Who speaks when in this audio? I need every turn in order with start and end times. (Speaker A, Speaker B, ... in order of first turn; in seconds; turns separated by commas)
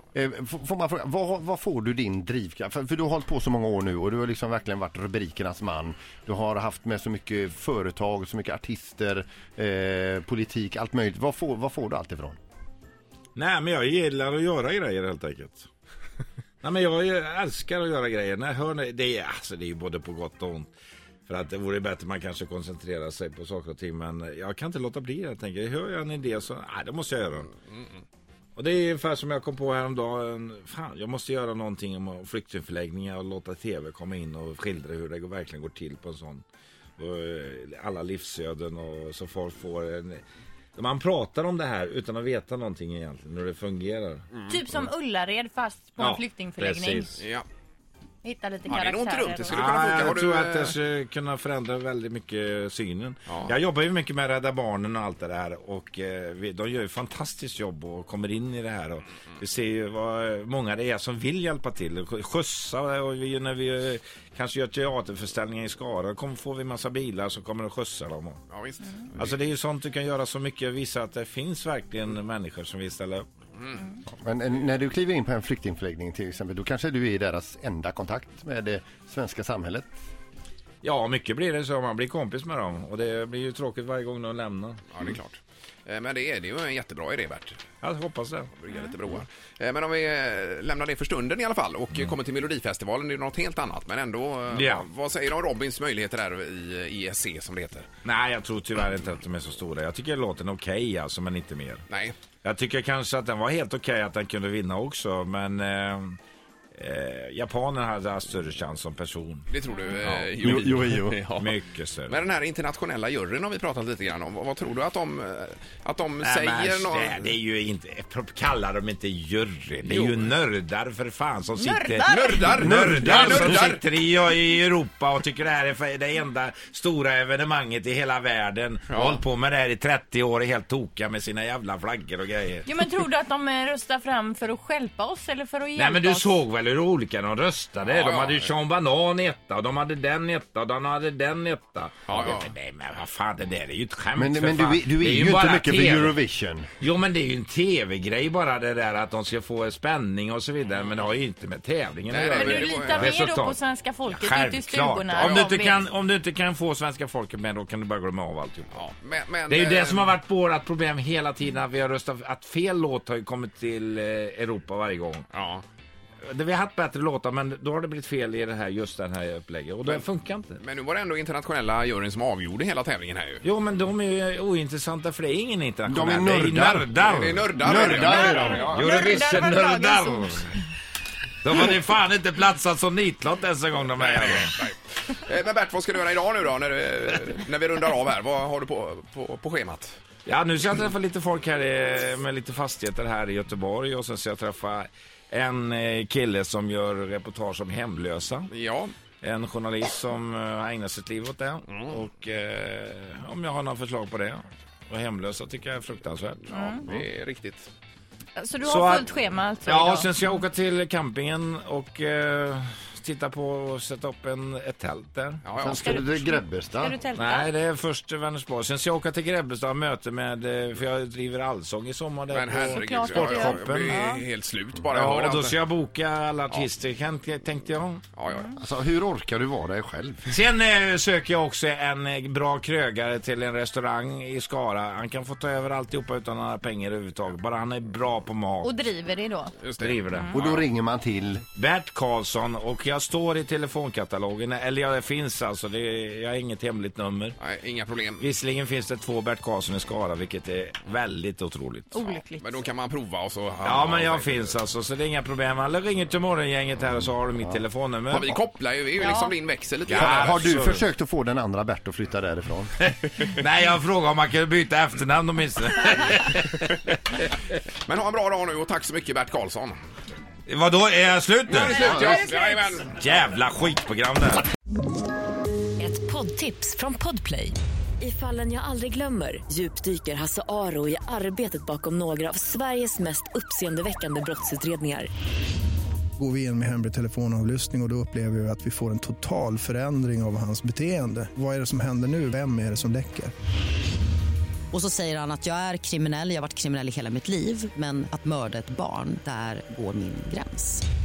Speaker A: 0.1-12.4, Speaker B: 13.3-15.7, Speaker B: 16.6-20.7, Speaker B: 21.3-27.5, Speaker B: 28.6-36.4, Speaker B: 37.0-40.2, Speaker B: 40.8-44.8, Speaker C: 44.5-47.2, Speaker B: 46.0-47.2, Speaker D: 47.2-47.4, Speaker C: 48.2-49.7, Speaker D: 48.6-50.8, Speaker B: 49.5-68.4, Speaker D: 53.3-53.5, Speaker D: 68.5-69.3, Speaker B: 69.2-73.2, Speaker D: 73.6-73.8, Speaker A: 74.1-80.0, Speaker B: 80.8-84.9, Speaker D: 84.9-87.6, Speaker B: 87.8-88.5, Speaker D: 88.6-97.9, Speaker B: 94.5-94.8, Speaker B: 98.0-101.8, Speaker D: 101.9-102.2, Speaker B: 102.4-106.2, Speaker B: 106.7-109.5, Speaker D: 109.5-111.5, Speaker B: 110.0-112.2, Speaker A: 110.4-111.2, Speaker D: 112.1-117.3, Speaker B: 116.2-132.8, Speaker D: 119.8-120.3, Speaker C: 121.5-122.5, Speaker D: 122.0-123.8, Speaker A: 122.7-123.6, Speaker D: 128.9-129.2, Speaker C: 132.7-136.4, Speaker B: 135.8-146.2, Speaker D: 137.8-138.5, Speaker D: 142.1-142.5, Speaker A: 144.1-146.7, Speaker B: 146.8-158.8, Speaker D: 150.7-151.0, Speaker D: 152.1-153.2, Speaker C: 152.3-155.8, Speaker D: 155.1-155.5, Speaker D: 158.7-160.1, Speaker B: 159.5-165.3, Speaker D: 165.3-165.6, Speaker B: 166.2-170.6, Speaker D: 170.6-173.4, Speaker B: 173.4-180.5, Speaker A: 175.9-176.9, Speaker D: 177.0-178.7, Speaker A: 177.6-178.9, Speaker C: 178.0-180.4, Speaker B: 181.4-184.5, Speaker D: 184.0-190.0, Speaker B: 190.2-198.5, Speaker D: 198.5-198.9, Speaker B: 199.2-206.6, Speaker C: 206.5-206.8, Speaker D: 206.5-207.7, Speaker C: 208.4-210.1, Speaker B: 208.6-209.1, Speaker B: 209.7-215.7, Speaker D: 215.4-216.0, Speaker A: 215.6-217.0, Speaker C: 215.7-217.5, Speaker B: 217.1-224.0, Speaker D: 222.3-225.6, Speaker C: 222.7-224.2, Speaker B: 224.9-228.1, Speaker D: 228.2-228.6, Speaker A: 228.6-230.3, Speaker B: 230.3-238.7, Speaker C: 238.6-239.6, Speaker D: 239.6-240.6, Speaker B: 239.8-240.4, Speaker A: 240.3-241.4, Speaker B: 241.5-247.4, Speaker D: 247.4-248.2, Speaker B: 248.2-252.0, Speaker C: 251.9-252.6, Speaker D: 252.0-254.6, Speaker B: 253.6-258.4, Speaker D: 258.1-260.5, Speaker C: 259.0-259.3, Speaker B: 259.9-260.8, Speaker A: 259.9-262.8, Speaker B: 262.8-266.8, Speaker D: 267.9-269.8, Speaker B: 270.5-271.9, Speaker D: 271.5-273.0, Speaker C: 271.7-272.7, Speaker B: 272.8-274.5, Speaker E: 275.8-285.1, Speaker F: 286.2-293.3, Speaker G: 294.7-300.8